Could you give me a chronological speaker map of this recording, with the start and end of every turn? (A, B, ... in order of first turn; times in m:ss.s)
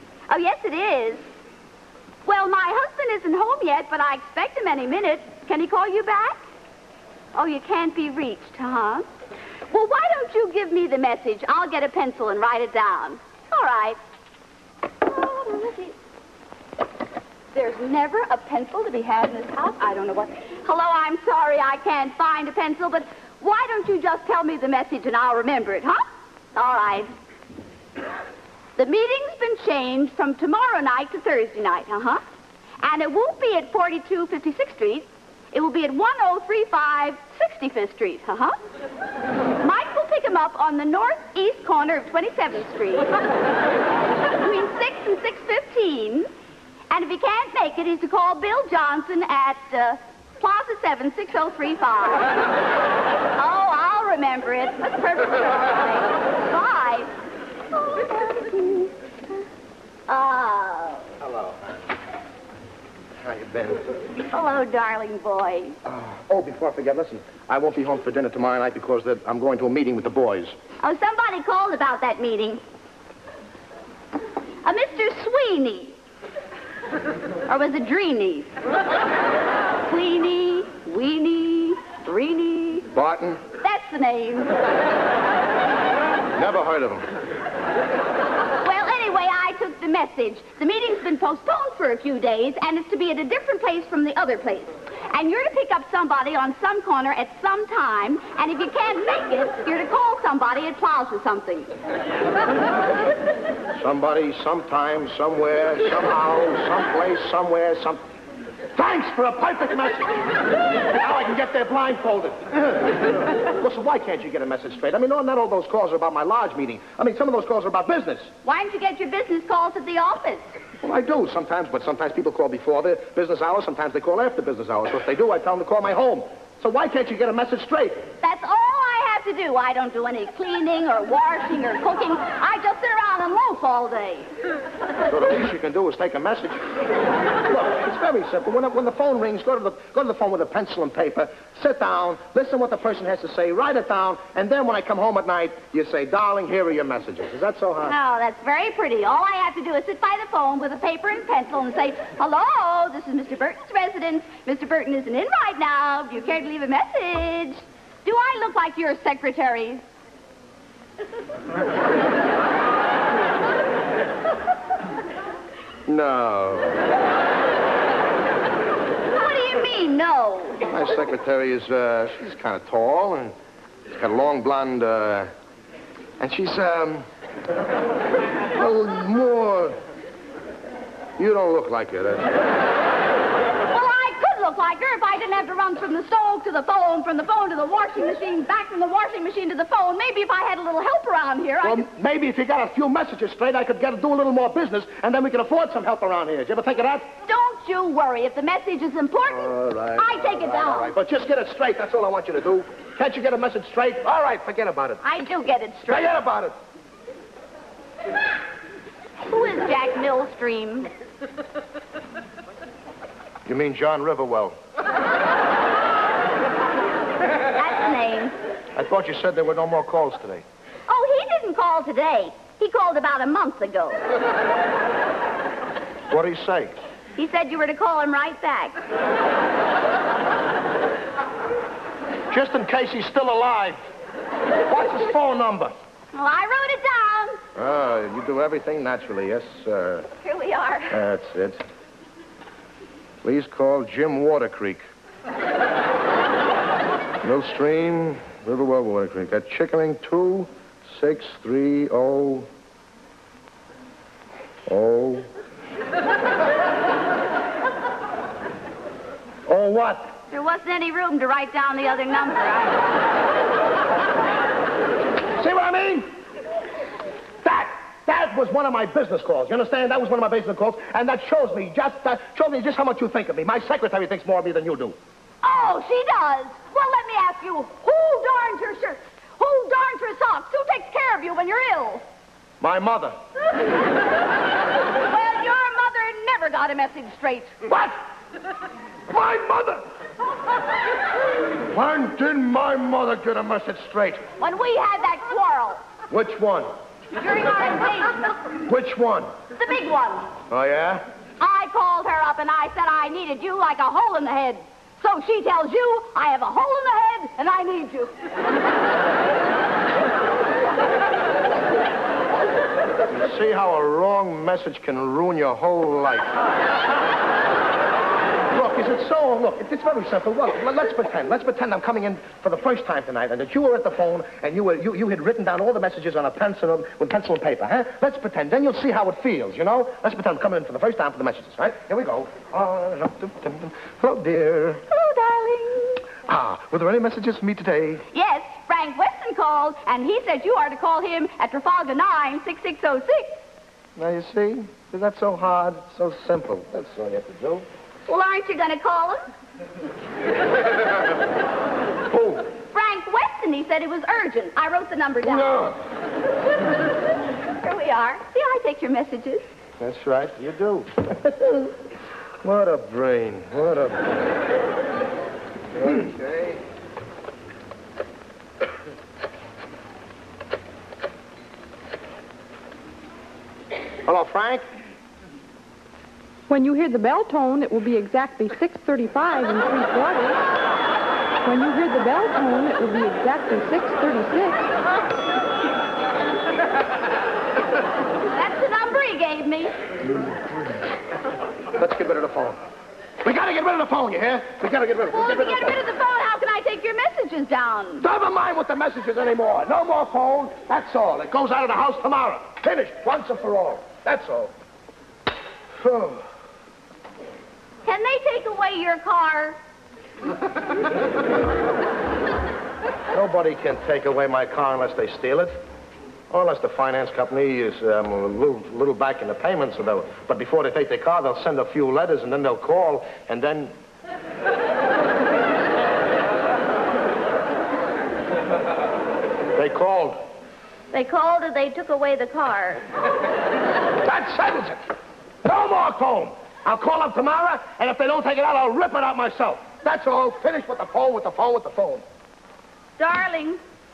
0:00.3-0:01.2 A
0:02.2-0:06.4 A
0:07.4-0:09.1 A
0:09.7-0:14.0 A
0:15.0-0:16.0 A
0:17.5-0:26.0 A
0:26.5-0:27.1 A
0:28.8-0:32.2 A
0:32.8-0:38.5 A
0:39.6-0:43.2 A
0:44.4-0:46.3 A
0:46.9-0:52.4 A
0:53.4-0:57.1 A
0:57.7-0:58.9 A
1:00.1-1:01.1 A
1:03.2-1:03.9 B
1:04.3-1:05.8 A
1:05.8-1:10.5 B
1:10.8-1:12.6 A
1:14.6-1:16.0 A
1:17.5-1:18.6 A
1:19.8-1:22.9 A
1:22.9-1:23.4 B
1:23.6-1:24.6 A
1:26.4-1:27.1 B
1:28.6-1:41.7 A
1:43.8-1:48.0 B
1:48.8-1:50.2 B
1:50.9-1:58.3 B
1:58.4-2:00.6 A
2:00.8-2:08.0 B
2:08.2-2:14.3 A
2:15.1-2:16.6 B
2:17.5-2:28.0 B
2:27.8-2:39.8 A
2:45.9-2:46.8 B
2:49.1-2:50.7 A
2:50.7-2:53.3 B
2:53.9-2:55.3 B
2:56.2-2:57.1 B
2:58.5-2:59.8 B
3:01.2-3:02.4 B
3:03.6-3:11.9 A
3:11.6-3:17.1 B
3:17.2-3:20.9 A
3:19.3-3:25.0 B
3:25.0-3:26.2 A
3:25.9-3:26.5 B
3:29.2-3:30.9 A
3:33.5-3:34.6 B
3:37.5-3:38.3 A
3:38.8-3:40.4 B
3:40.9-3:44.1 A
3:46.1-3:46.7 B
3:47.2-3:48.8 A
3:52.3-3:53.8 B
3:54.7-3:55.7 B
3:56.1-3:57.4 A
3:57.6-4:00.1 B
4:00.2-4:01.0 A
4:00.9-4:01.6 B
4:03.2-4:04.8 B
4:07.2-4:12.5 B
4:14.7-4:15.3 B
4:19.5-4:20.1 B
4:20.3-4:23.0 A
4:25.4-4:26.1 B
4:27.4-4:35.0 B
4:35.4-4:42.0 A
4:42.6-4:43.2 B
4:45.0-4:47.6 A
4:47.6-4:47.9 B
4:49.1-4:49.8 B
4:51.7-4:54.2 B
4:54.4-4:55.8 A
4:56.1-4:56.7 B
4:57.1-4:58.4 A
4:58.7-4:59.3 B
4:59.5-5:00.3 A
5:00.5-5:01.0 B
5:01.4-5:08.1 A
5:13.1-5:16.4 B
5:18.5-5:34.8 B
5:34.9-5:36.1 A
5:36.3-5:38.0 B
5:38.1-5:43.3 A
5:44.0-5:47.7 B
5:48.1-5:49.2 A
5:52.1-5:52.5 B
5:52.7-5:55.7 A
5:55.2-5:55.8 B
5:57.6-5:59.4 A
5:59.8-6:01.7 B
6:02.4-6:04.1 B
6:05.8-6:06.6 B
6:14.1-6:14.6 B
6:16.5-6:20.4 C
6:21.4-6:24.6 C
6:28.2-6:29.7 A
6:31.8-6:32.6 B
6:33.2-6:35.8 B
6:35.1-6:38.0 A
6:38.0-6:44.5 B
6:45.8-6:46.2 B
6:47.9-6:49.6 A
6:53.1-6:55.6 B
6:56.3-7:03.7 B
7:09.6-7:10.2 B
7:10.9-7:12.8 A
7:14.0-7:14.8 B
7:15.4-7:22.0 B
7:23.0-7:23.6 A